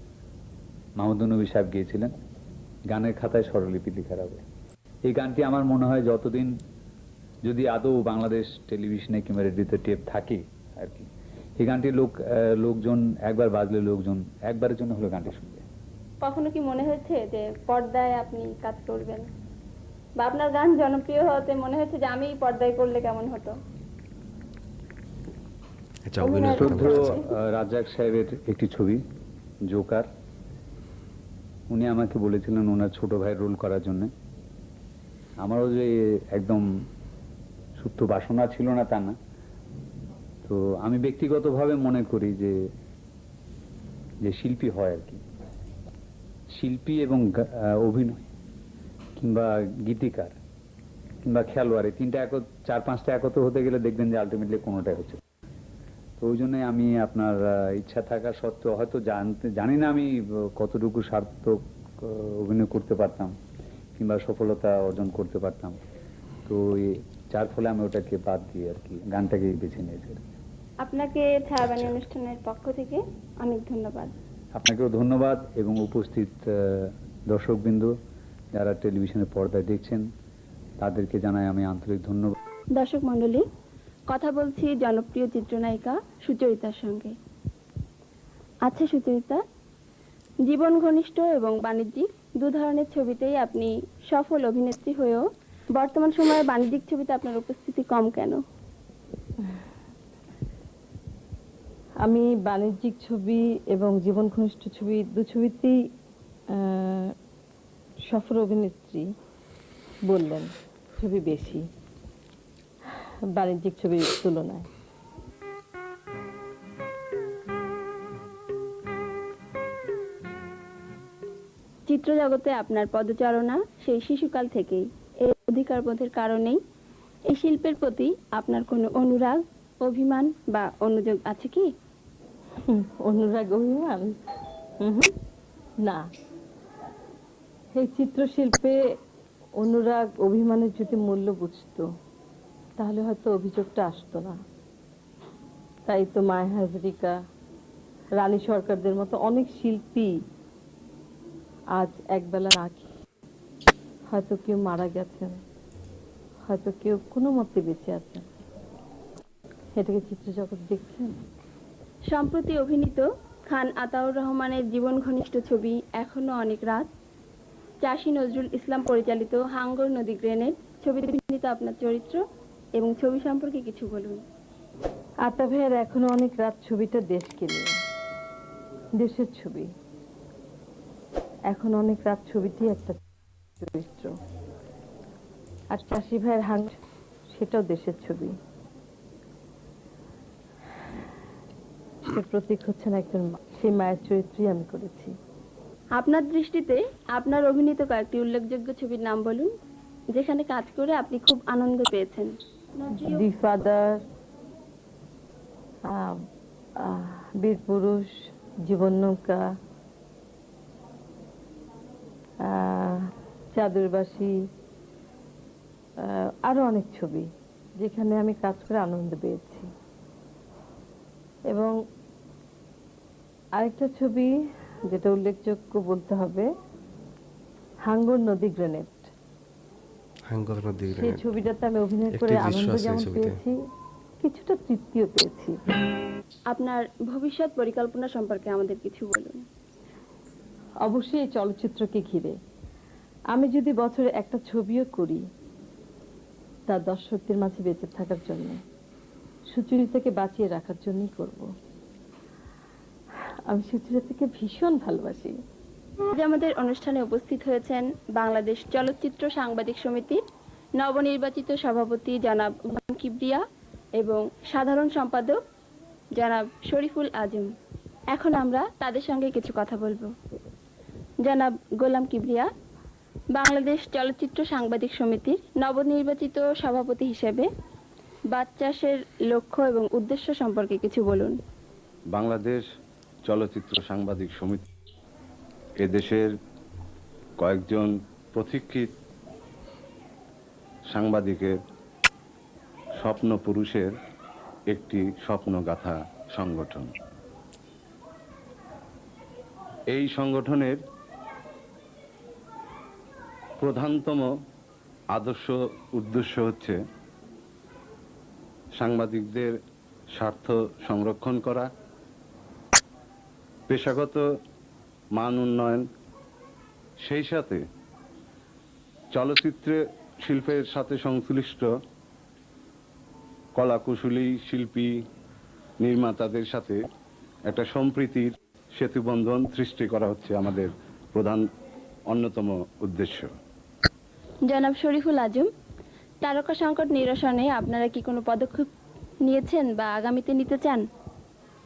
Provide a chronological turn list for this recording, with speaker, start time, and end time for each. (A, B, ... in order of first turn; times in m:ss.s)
0:01.0-0:02.1 A
0:02.9-0:04.4 A
0:05.1-0:06.6 A
0:07.5-0:11.1 A
0:11.6-0:15.6 A
0:16.2-0:19.3 B
0:20.2-0:23.6 B
0:26.1-0:27.1 C
0:26.2-0:27.2 B
0:26.5-0:29.0 A
0:29.7-0:30.1 A
0:31.7-0:34.1 A
0:35.4-0:36.6 A
0:37.8-0:39.2 A
0:40.4-0:42.6 A
0:44.2-0:45.2 A
0:46.6-0:48.2 A
0:49.2-0:50.4 A
0:51.2-0:55.2 A
0:56.2-1:03.3 A
1:04.0-1:05.8 A
1:06.5-1:10.2 A
1:10.8-1:14.1 B
1:14.6-1:17.9 A
1:18.6-1:20.1 A
1:20.8-1:22.4 A
1:22.8-1:23.4 B
1:24.1-1:27.1 B
1:28.7-1:29.4 B
1:30.5-1:38.4 B
1:42.0-1:45.8 D
1:46.5-1:47.1 D
1:48.1-1:49.1 D
1:50.1-1:51.6 D
1:53.4-1:54.7 D
2:01.9-2:06.6 B
2:07.3-2:11.7 B
2:12.7-2:14.2 D
2:14.8-2:15.1 D
2:17.8-2:18.8 D
2:19.6-2:21.8 D
2:22.8-2:24.4 D
2:25.9-2:27.2 D
2:28.2-2:30.2 D
2:31.8-2:32.9 D
2:34.1-2:35.4 D
2:36.5-2:38.2 D
2:39.8-2:41.1 D
2:42.1-2:46.9 B
2:47.8-2:52.2 B
2:52.8-2:54.2 B
2:55.3-2:57.7 D
2:59.0-2:59.7 D
3:01.5-3:03.0 D
3:03.6-3:04.1 D
3:05.7-3:06.8 D
3:07.3-3:08.4 D
3:12.1-3:15.1 D
3:16.0-3:19.5 B
3:20.1-3:23.2 B
3:23.1-3:24.0 D
3:25.9-3:26.2 D
3:26.9-3:28.1 D
3:28.7-3:29.4 D
3:32.5-3:33.0 D
3:33.6-3:34.4 D
3:36.1-3:37.3 D
3:37.8-3:39.7 D
3:43.6-3:44.3 D
3:44.9-3:46.5 D
3:47.9-3:49.1 D
3:50.3-3:51.2 C
3:50.9-3:53.5 D
3:52.1-3:53.4 C
3:54.2-3:55.6 D
3:56.5-3:59.4 B
4:00.8-4:02.4 D
4:03.3-4:05.2 D
4:06.7-4:08.6 D
4:09.5-4:11.4 D
4:13.5-4:15.4 D
4:16.1-4:20.2 B
4:20.8-4:23.4 B
4:24.0-4:25.4 B
4:26.2-4:27.5 B
4:28.1-4:30.1 B
4:31.2-4:32.5 B
4:33.3-4:37.5 B
4:38.3-4:41.4 B
4:42.1-4:42.6 E
4:43.3-4:44.7 E
4:45.8-4:46.3 E
4:47.4-4:48.9 E
4:50.9-4:51.5 E
4:53.0-4:53.9 E
4:54.7-4:56.9 E
4:59.9-5:00.8 E
5:03.6-5:04.3 E
5:05.2-5:06.8 E
5:08.8-5:09.5 E
5:10.2-5:11.7 E
5:13.7-5:14.2 E
5:15.2-5:15.8 E
5:17.0-5:17.6 E
5:19.2-5:21.7 E
5:23.6-5:24.9 E
5:25.8-5:26.8 E
5:27.5-5:31.4 E
5:32.1-5:33.3 E
5:34.5-5:35.5 B
5:36.2-5:38.7 B
5:39.2-5:40.8 B